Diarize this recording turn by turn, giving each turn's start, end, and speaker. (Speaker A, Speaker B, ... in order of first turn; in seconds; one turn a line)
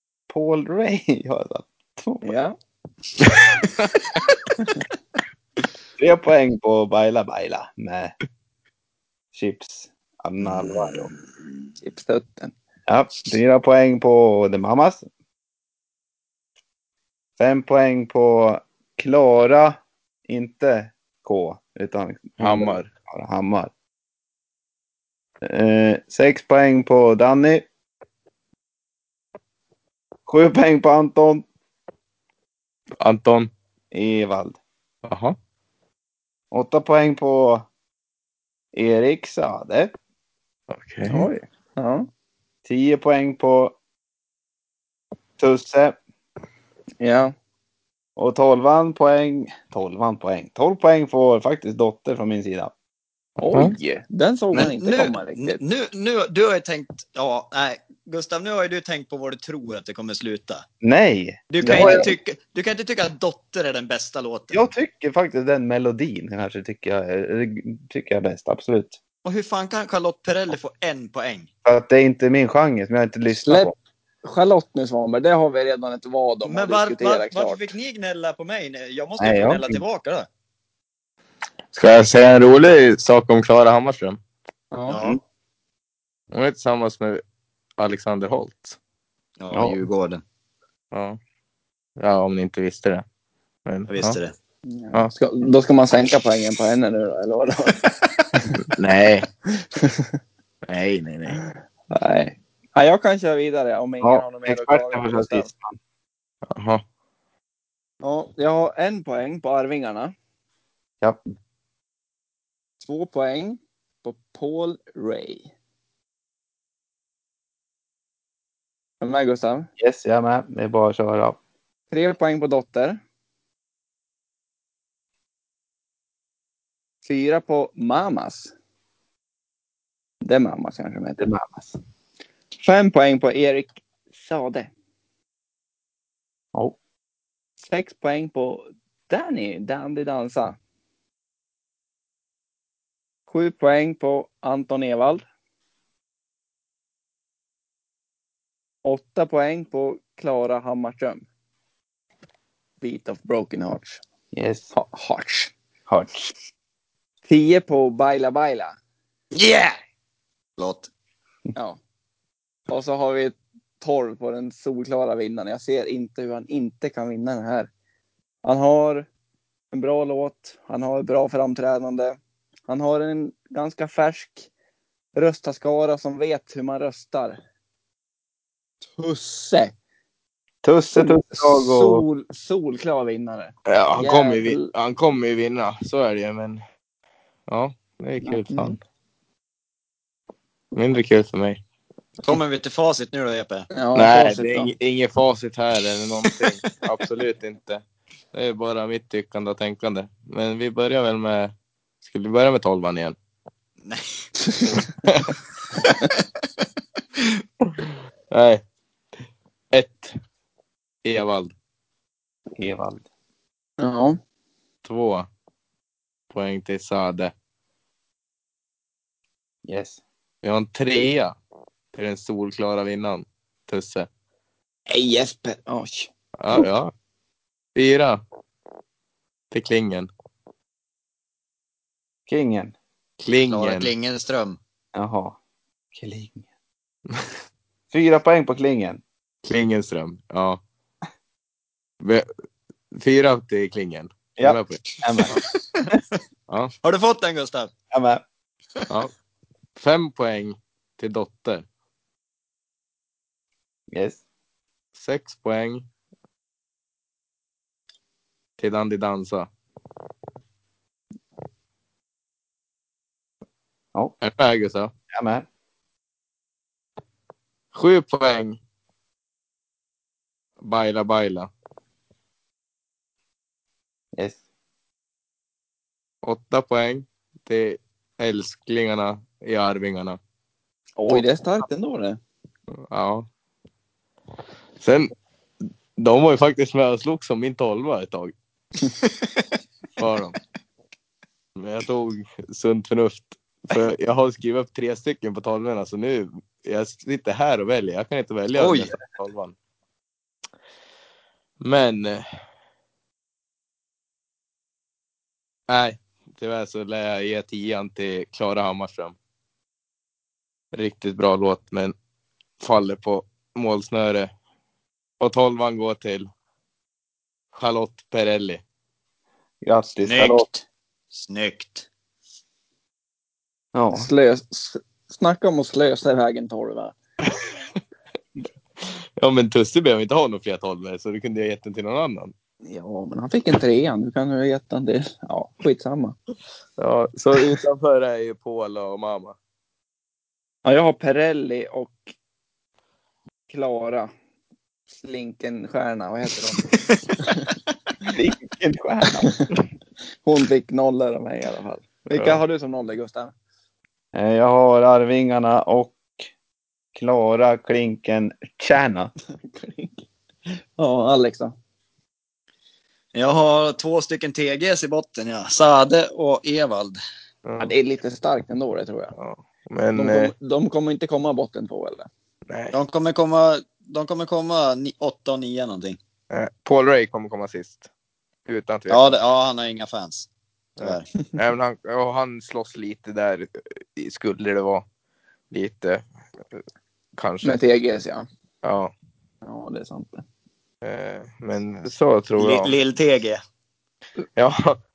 Speaker A: 0.3-2.3
Speaker B: 2.2-2.5
Speaker A: 6.0-8.1
Speaker A: 9.3-11.1
Speaker B: 11.8-12.5
Speaker A: 12.9-15.1
Speaker A: 17.4-23.7
Speaker C: 22.4-22.9
Speaker A: 25.4-27.7
Speaker A: 30.3-31.4
Speaker C: 33.0-33.5
Speaker A: 33.9-34.6
Speaker C: 35.0-35.4
Speaker A: 36.5-37.7
Speaker A: 38.7-39.9
Speaker C: 40.7-41.3
Speaker B: 41.1-42.1
Speaker A: 42.6-43.7
Speaker A: 45.4-46.0
Speaker B: 47.0-47.3
Speaker A: 48.1-52.7
Speaker B: 53.4-55.6
Speaker D: 54.5-60.6
Speaker A: 60.8-62.1
Speaker D: 61.5-64.7
Speaker B: 61.6-62.1
Speaker A: 64.5-69.0
Speaker D: 69.2-71.5
Speaker A: 71.6-73.7
Speaker B: 73.5-77.7
Speaker D: 76.4-80.3
Speaker A: 79.2-79.8
Speaker C: 81.7-84.2
Speaker B: 84.7-85.0
Speaker D: 84.9-85.2
Speaker C: 86.3-87.2
Speaker C: 87.8-88.8
Speaker D: 89.4-90.2
Speaker A: 89.5-89.8
Speaker C: 90.9-91.2
Speaker C: 92.0-93.0
Speaker C: 93.7-94.2
Speaker D: 93.9-94.3
Speaker B: 94.7-97.8
Speaker C: 98.7-99.3
Speaker B: 99.8-100.1
Speaker C: 100.7-101.4
Speaker B: 101.9-105.5
Speaker A: 104.0-105.8
Speaker C: 106.5-106.8
Speaker B: 108.0-110.1
Speaker B: 112.8-115.5
Speaker B: 119.0-119.7
Speaker A: 119.8-121.4
Speaker B: 121.9-123.0
Speaker B: 127.0-128.5
Speaker B: 130.2-131.2
Speaker A: 131.2-131.7
Speaker B: 132.6-134.7
Speaker B: 137.6-140.6
Speaker B: 143.3-145.2
Speaker B: 148.8-151.2
Speaker B: 152.8-154.0
Speaker A: 154.3-154.7
Speaker B: 154.7-155.5
Speaker A: 155.9-156.3
Speaker B: 157.3-158.8
Speaker D: 159.3-159.8
Speaker D: 160.6-160.9
Speaker B: 162.7-167.7
Speaker B: 168.4-169.1
Speaker B: 169.7-174.5
Speaker B: 175.1-177.4
Speaker B: 179.0-179.7
Speaker A: 180.6-182.0
Speaker B: 180.9-184.7
Speaker C: 183.7-186.6
Speaker C: 187.5-188.8
Speaker B: 188.2-188.8
Speaker C: 190.7-191.6
Speaker D: 192.2-193.7
Speaker B: 193.7-194.7
Speaker C: 193.9-201.5
Speaker C: 202.0-203.2
Speaker D: 203.8-204.2
Speaker C: 204.9-205.3
Speaker C: 207.7-208.6
Speaker C: 209.7-210.1
Speaker C: 211.0-211.5
Speaker A: 212.6-213.0
Speaker B: 213.8-214.2
Speaker C: 214.8-215.3
Speaker C: 216.3-217.3
Speaker A: 219.6-220.0
Speaker C: 220.4-221.3
Speaker C: 221.9-224.1
Speaker B: 224.9-226.7
Speaker C: 226.4-226.9
Speaker C: 227.7-228.2
Speaker C: 229.5-230.1
Speaker A: 232.3-232.7
Speaker C: 233.2-233.9
Speaker D: 233.5-234.6
Speaker A: 234.9-235.4
Speaker A: 235.9-236.4
Speaker A: 237.9-239.0
Speaker C: 239.4-240.6
Speaker C: 242.0-242.3
Speaker C: 242.9-244.8
Speaker A: 244.4-245.4
Speaker D: 245.3-245.6
Speaker D: 246.8-247.7
Speaker A: 247.9-248.2
Speaker C: 249.8-251.6
Speaker A: 253.9-254.2
Speaker C: 254.9-255.8
Speaker C: 258.6-259.5
Speaker C: 264.2-264.9
Speaker A: 265.1-265.4
Speaker C: 267.7-268.6
Speaker C: 270.6-271.5
Speaker C: 276.2-280.2
Speaker B: 281.0-282.2
Speaker C: 282.9-283.2
Speaker C: 284.8-285.1
Speaker C: 285.9-288.3
Speaker C: 290.0-290.3
Speaker C: 291.6-299.5
Speaker D: 298.6-298.9
Speaker C: 301.6-302.2
Speaker C: 305.7-309.1
Speaker C: 310.7-311.9
Speaker C: 312.6-314.3
Speaker C: 315.2-316.3
Speaker C: 317.5-318.6
Speaker A: 319.6-320.4
Speaker D: 320.0-321.9
Speaker A: 323.7-324.1
Speaker B: 323.9-326.9
Speaker C: 328.8-332.3
Speaker B: 332.6-336.1
Speaker C: 336.8-339.4
Speaker B: 340.6-342.1
Speaker B: 343.5-344.1
Speaker B: 345.0-346.6
Speaker A: 348.1-349.3
Speaker B: 349.2-349.6
Speaker B: 350.2-353.3
Speaker C: 352.1-352.4
Speaker A: 354.1-356.0
Speaker A: 356.9-359.1
Speaker B: 359.3-360.0
Speaker B: 360.8-361.5
Speaker D: 363.1-367.0
Speaker C: 367.4-367.7
Speaker B: 367.6-369.1
Speaker C: 369.1-370.3
Speaker B: 369.9-372.1
Speaker C: 372.5-372.7
Speaker D: 372.7-376.0
Speaker C: 376.3-377.9
Speaker C: 378.4-379.1
Speaker D: 378.9-381.1
Speaker C: 380.8-384.8
Speaker C: 385.5-386.6
Speaker C: 387.2-387.6
Speaker B: 387.4-388.2
Speaker C: 388.6-388.9
Speaker B: 389.4-390.2
Speaker C: 390.8-392.7
Speaker D: 392.4-393.4
Speaker C: 394.4-394.8